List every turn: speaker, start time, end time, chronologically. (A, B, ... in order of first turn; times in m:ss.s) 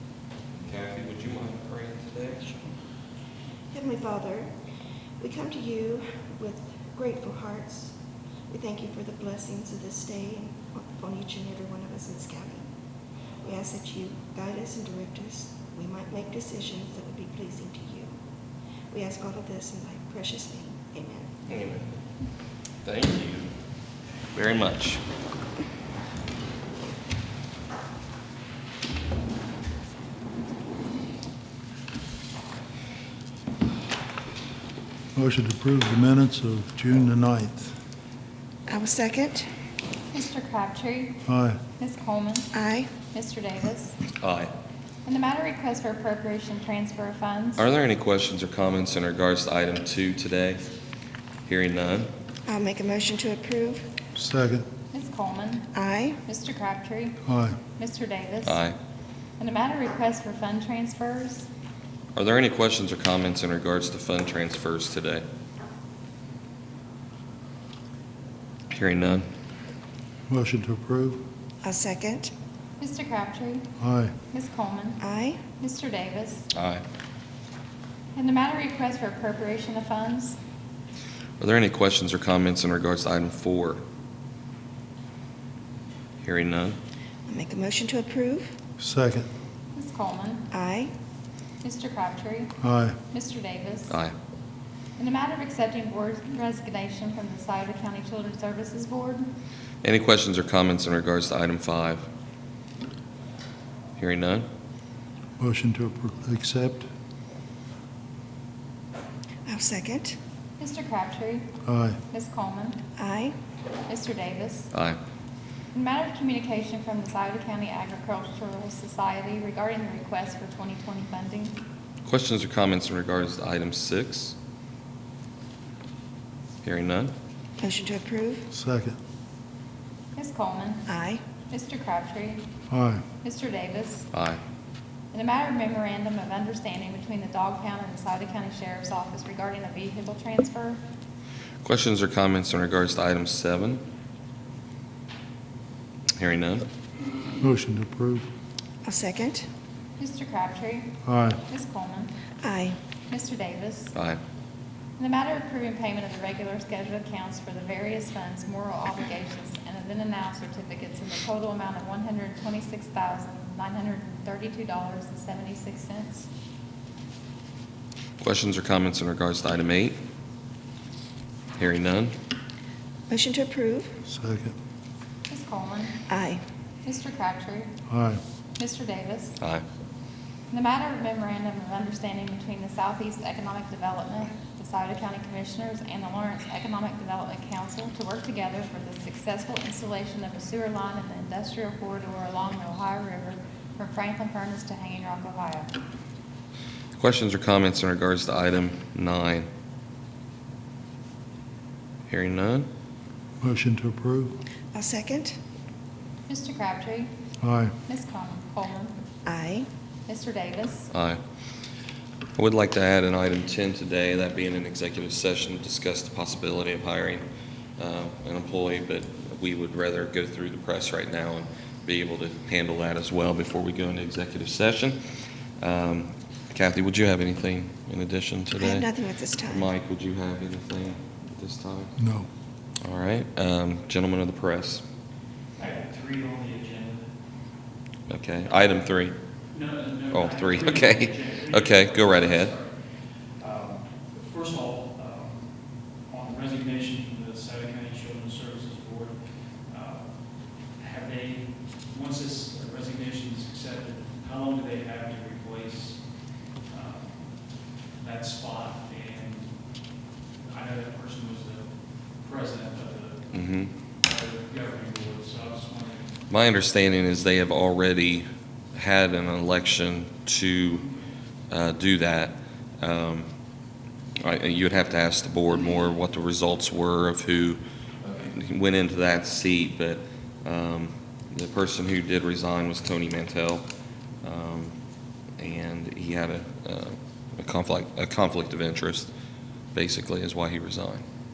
0:00.6-0:02.5 A
0:03.7-0:04.5 B
0:05.2-0:08.0 B
0:08.5-0:12.7 B
0:13.4-0:18.2 B
0:18.9-0:21.3 B
0:21.5-0:21.9 A
0:22.8-0:23.5 A
0:24.3-0:25.0 A
0:35.2-0:37.7 C
0:38.7-0:39.5 B
0:40.1-0:41.2 D
0:41.2-0:41.6 C
0:41.8-0:42.5 D
0:42.5-0:42.9 B
0:43.1-0:44.0 D
0:44.2-0:44.5 A
0:45.0-0:47.7 D
0:47.6-0:50.6 A
0:51.5-0:52.1 A
0:52.5-0:53.9 B
0:54.2-0:54.7 C
0:54.9-0:55.7 D
0:55.7-0:56.2 B
0:56.2-0:57.2 D
0:57.3-0:57.6 C
0:57.8-0:58.6 D
0:58.4-0:58.8 A
0:59.4-1:01.5 D
1:02.2-1:05.2 A
1:08.7-1:09.3 A
1:10.3-1:11.2 C
1:11.6-1:12.3 B
1:12.8-1:13.7 D
1:13.8-1:14.1 C
1:14.3-1:15.0 D
1:15.0-1:15.4 B
1:15.6-1:16.5 D
1:16.5-1:16.8 A
1:18.1-1:20.4 D
1:21.4-1:23.8 A
1:26.2-1:26.8 A
1:27.3-1:28.5 B
1:28.8-1:29.3 C
1:29.7-1:30.5 D
1:30.5-1:30.9 B
1:31.6-1:32.5 D
1:32.6-1:33.0 C
1:33.1-1:34.0 D
1:33.9-1:34.1 A
1:35.0-1:39.3 D
1:39.8-1:42.1 A
1:44.0-1:44.5 A
1:45.4-1:46.9 C
1:49.5-1:50.2 B
1:50.6-1:51.5 D
1:51.6-1:52.0 C
1:52.1-1:52.8 D
1:53.0-1:53.4 B
1:53.9-1:54.7 D
1:54.7-1:55.0 A
1:55.7-2:01.6 D
2:02.0-2:04.4 A
2:06.6-2:07.1 A
2:07.6-2:08.5 B
2:08.5-2:09.0 C
2:10.2-2:10.9 D
2:10.9-2:11.2 B
2:11.5-2:12.4 D
2:12.7-2:13.0 C
2:13.2-2:14.1 D
2:14.1-2:14.4 A
2:15.1-2:20.8 D
2:21.6-2:23.8 A
2:26.2-2:26.7 A
2:27.4-2:28.3 C
2:28.8-2:29.5 B
2:30.0-2:32.1 D
2:31.0-2:31.4 C
2:32.4-2:32.8 B
2:33.1-2:34.0 D
2:35.0-2:46.3 D
2:48.2-2:50.0 A
2:51.6-2:52.2 A
2:53.1-2:54.0 B
2:54.1-2:54.6 C
2:55.3-2:56.0 D
2:56.1-2:56.4 B
2:56.8-2:57.7 D
2:57.9-2:58.2 C
2:58.6-2:59.4 D
3:00.5-3:15.7 D
3:17.0-3:19.5 A
3:22.1-3:22.7 A
3:23.4-3:24.4 C
3:24.7-3:25.4 B
3:26.3-3:27.1 D
3:27.4-3:27.7 C
3:27.9-3:29.0 D
3:29.3-3:29.7 B
3:30.1-3:30.9 D
3:30.9-3:31.2 A
3:32.4-3:37.2 A
3:37.8-3:45.0 A
3:45.6-3:48.9 A
3:48.6-3:49.7 B
3:49.4-3:51.9 A
3:52.0-3:52.3 C
3:52.8-3:54.8 A
3:55.6-3:57.1 E
3:58.1-3:59.2 A
3:59.5-4:19.9 E
4:00.1-4:02.5 A
4:20.4-4:26.2 E
4:23.3-4:23.7 A
4:26.3-4:30.9 A
4:31.5-4:33.3 A
4:34.2-4:37.6 A
4:38.2-4:43.6 A
4:44.2-4:44.7 A
4:45.4-4:49.1 A
4:49.7-4:51.0 A